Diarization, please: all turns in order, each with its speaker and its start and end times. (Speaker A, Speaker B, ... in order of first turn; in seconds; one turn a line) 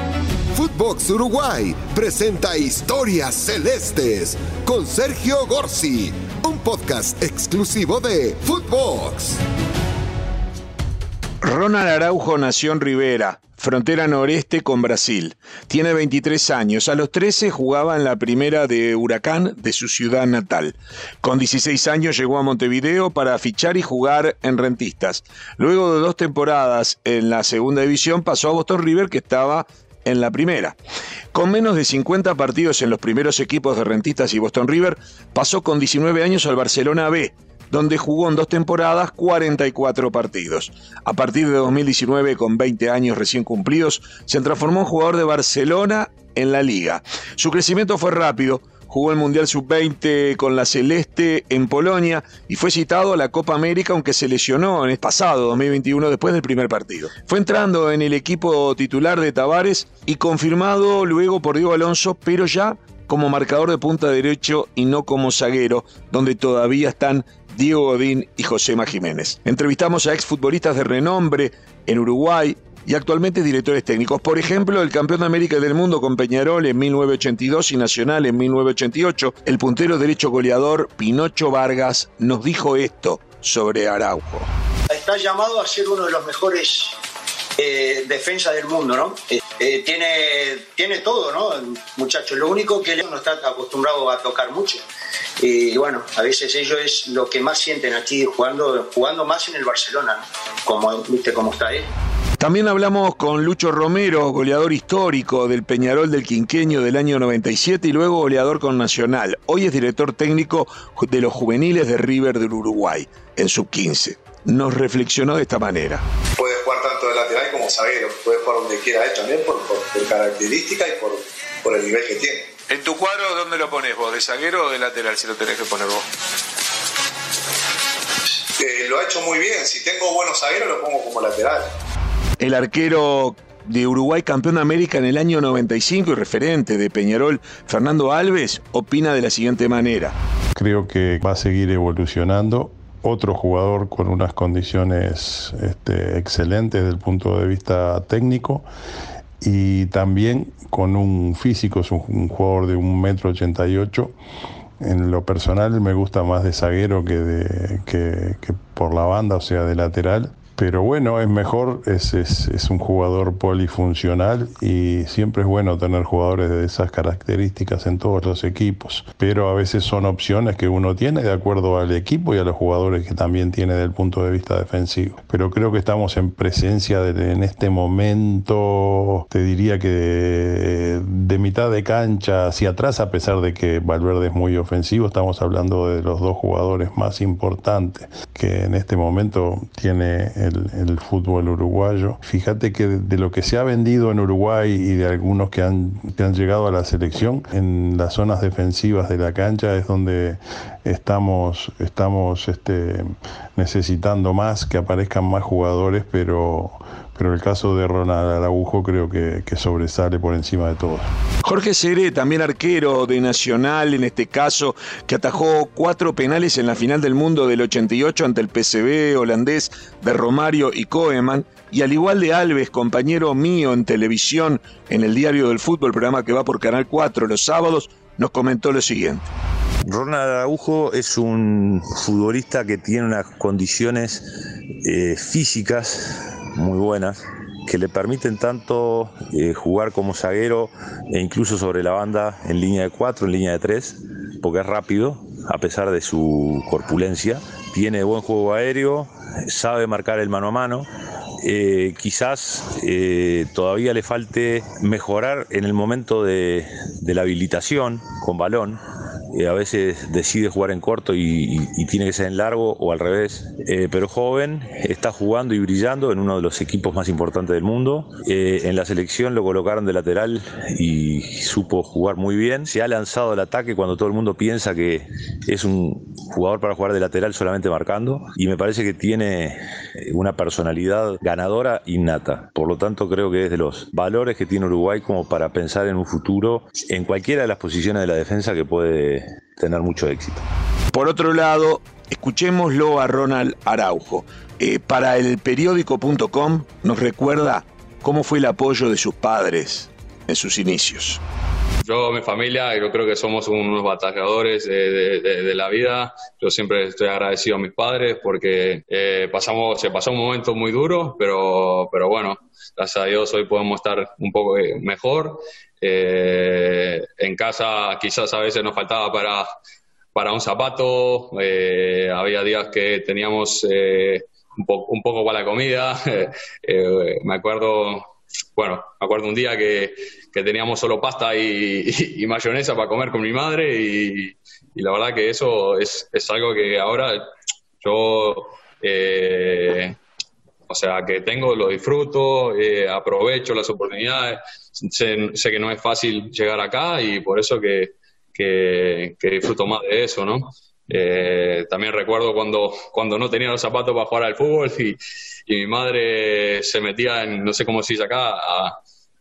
Speaker A: 0.5-9.4
Speaker B: 11.4-30.8
Speaker B: 31.3-84.5
Speaker C: 84.9-87.0
Speaker C: 87.6-94.8
Speaker C: 95.4-101.9
Speaker B: 102.4-116.0
Speaker D: 116.4-122.4
Speaker B: 122.7-126.0
Speaker D: 128.6-131.7
Speaker B: 132.4-140.2
Speaker E: 140.5-148.7
Speaker E: 149.4-154.2
Speaker E: 154.8-211.1
Speaker B: 211.4-229.2
Speaker F: 229.8-250.9
Speaker F: 251.4-290.5
Speaker B: 290.9-301.2
Speaker G: 301.8-319.5
Speaker G: 320.1-337.3
Speaker G: 337.8-340.0
Speaker G: 340.7-358.8